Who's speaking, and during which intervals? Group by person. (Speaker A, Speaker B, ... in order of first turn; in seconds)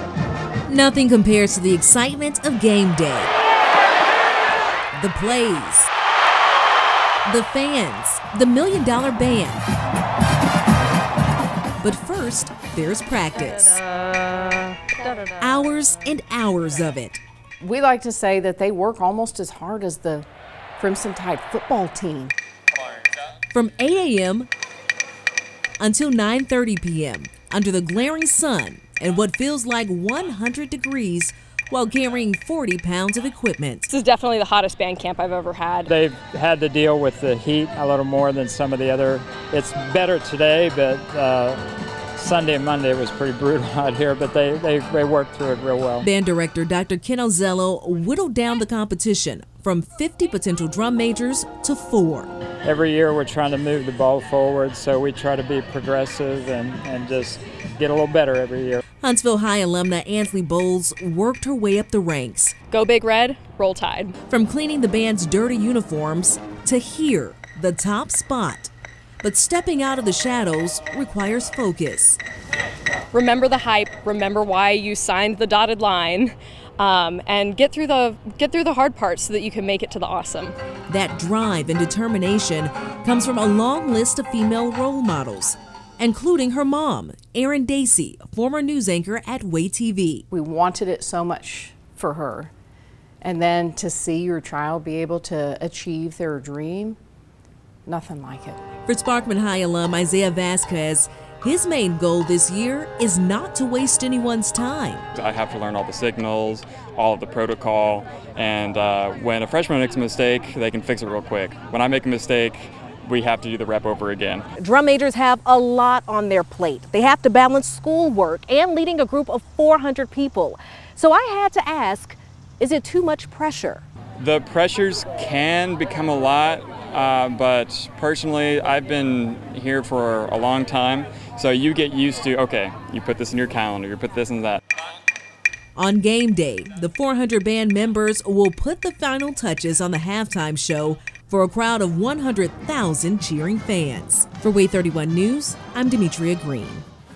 Speaker A: 0.7-3.3, 5.0-5.9, 7.2-9.6, 11.8-13.8, 15.3-17.2, 23.5-24.5, 25.8-33.9, 46.0-52.3, 59.0-62.5, 64.3-68.7, 69.2-72.2, 80.9-90.2, 98.8-105.0, 135.8-146.8
Speaker B: 17.6-20.2, 20.8-22.3, 90.3-92.5, 93.2-97.0, 97.8-98.6, 116.4-116.6
Speaker C: 33.9-35.9, 62.7-64.2, 73.1-80.5
Speaker D: 35.9-41.6, 42.2-46.0, 52.6-58.8
Speaker E: 105.1-114.5, 124.2-134.6
Speaker F: 114.8-116.1, 116.9-119.4, 119.9-120.4, 121.0-122.2